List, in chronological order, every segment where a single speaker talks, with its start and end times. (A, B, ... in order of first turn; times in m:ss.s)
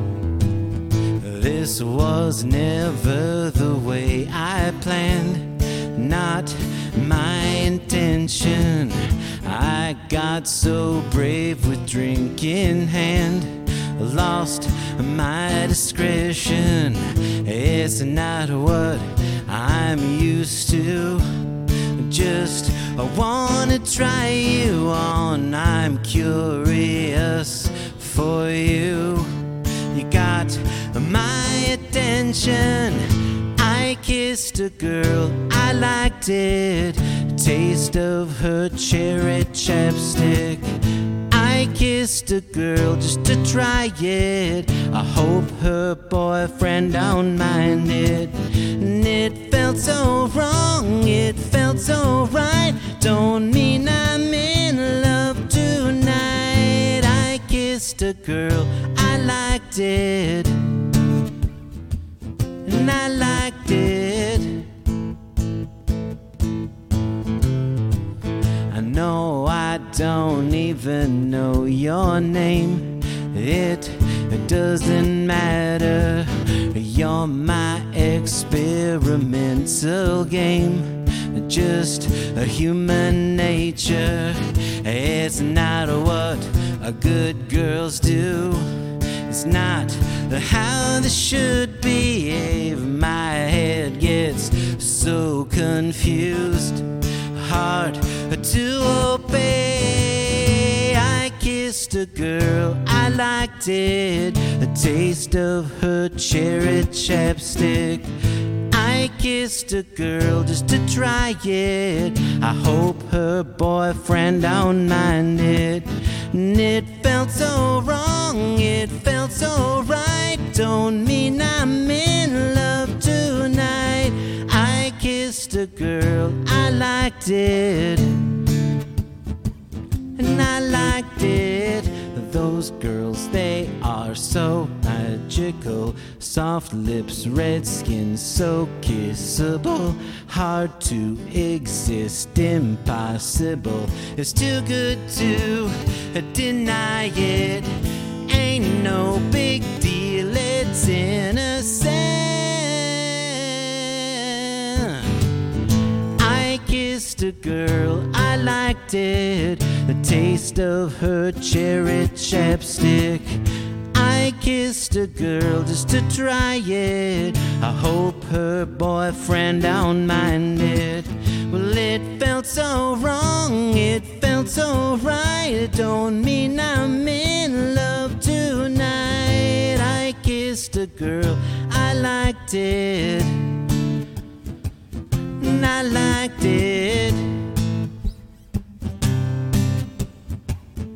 0:01.2-1:01.0 A
1:02.6-1:04.7 A
1:08.7-2:08.5 A
2:10.2-2:35.2 A
2:36.2-3:03.7 A
3:05.4-3:07.5 A